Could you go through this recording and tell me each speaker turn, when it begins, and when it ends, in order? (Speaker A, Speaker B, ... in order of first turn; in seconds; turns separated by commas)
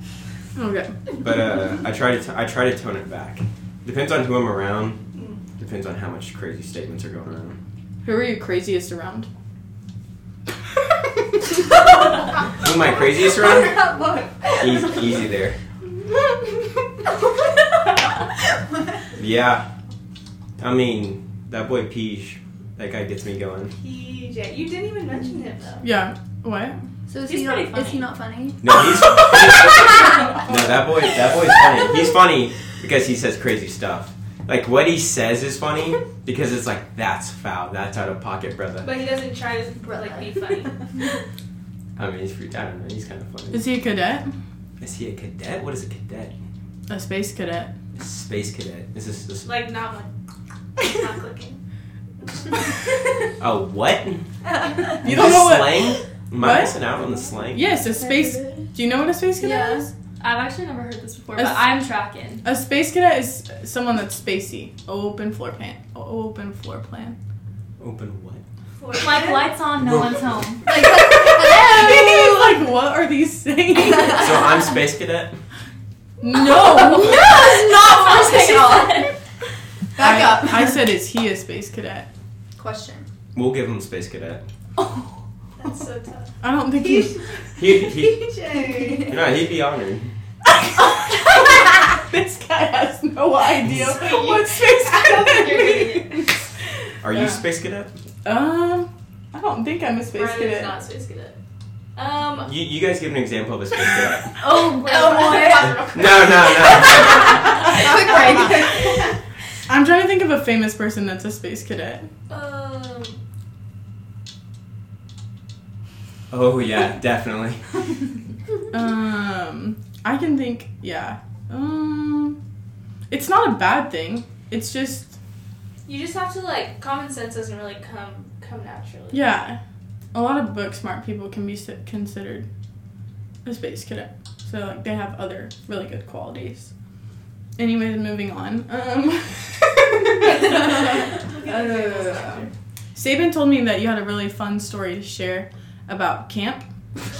Speaker A: 0.6-0.9, Speaker B: 1.2-5.0, Speaker C: 5.1-5.4, Speaker B: 5.6-7.6, Speaker A: 8.0-9.3, Speaker B: 12.6-13.8, Speaker D: 13.4-14.7, Speaker B: 14.6-15.6, Speaker B: 19.1-19.6, Speaker B: 20.6-23.7, Speaker C: 23.8-25.9, Speaker A: 25.8-26.8, Speaker D: 27.1-28.8, Speaker E: 27.2-28.1, Speaker B: 28.6-38.9, Speaker D: 29.3-30.6, Speaker C: 38.8-40.9, Speaker D: 39.8-40.7, Speaker B: 42.0-43.7, Speaker A: 43.5-44.3, Speaker B: 44.8-46.3, Speaker A: 46.9-47.7, Speaker B: 47.9-49.6, Speaker C: 49.4-50.1, Speaker C: 50.8-51.6, Speaker C: 52.2-52.9, Speaker B: 53.4-54.3, Speaker D: 54.6-55.0, Speaker A: 55.0-56.8, Speaker B: 55.0-57.6, Speaker A: 57.5-59.9, Speaker D: 57.7-58.7, Speaker D: 59.4-59.9, Speaker E: 60.2-62.4, Speaker A: 61.3-61.6, Speaker A: 62.4-67.2, Speaker B: 67.8-68.4, Speaker C: 68.8-69.5, Speaker E: 68.9-70.6, Speaker B: 69.8-70.2, Speaker D: 70.6-72.6, Speaker A: 70.8-74.4, Speaker D: 73.8-74.5, Speaker B: 74.1-75.4, Speaker A: 76.2-77.4, Speaker D: 76.6-79.1, Speaker E: 76.8-79.1, Speaker D: 80.0-80.8, Speaker A: 80.0-82.1, Speaker D: 82.5-83.1, Speaker B: 83.3-84.4, Speaker E: 84.8-85.0, Speaker C: 85.6-89.2, Speaker A: 86.4-87.2, Speaker B: 87.6-88.3, Speaker D: 88.5-89.2, Speaker B: 89.1-90.1, Speaker A: 90.5-96.3, Speaker C: 93.8-96.3, Speaker B: 97.0-97.9, Speaker A: 97.1-97.4, Speaker A: 98.2-100.8, Speaker C: 100.1-101.4, Speaker C: 102.0-102.5, Speaker B: 102.4-104.3, Speaker D: 104.4-106.0, Speaker C: 104.4-107.0, Speaker B: 105.9-107.7, Speaker D: 106.5-109.1, Speaker C: 107.6-109.1, Speaker A: 109.7-112.1, Speaker C: 112.3-113.2, Speaker B: 116.3-117.6, Speaker A: 118.7-122.4, Speaker A: 123.1-125.1, Speaker C: 125.8-129.2, Speaker A: 129.1-129.6, Speaker A: 130.1-132.4, Speaker A: 133.4-136.7, Speaker A: 137.6-146.6, Speaker C: 140.5-142.5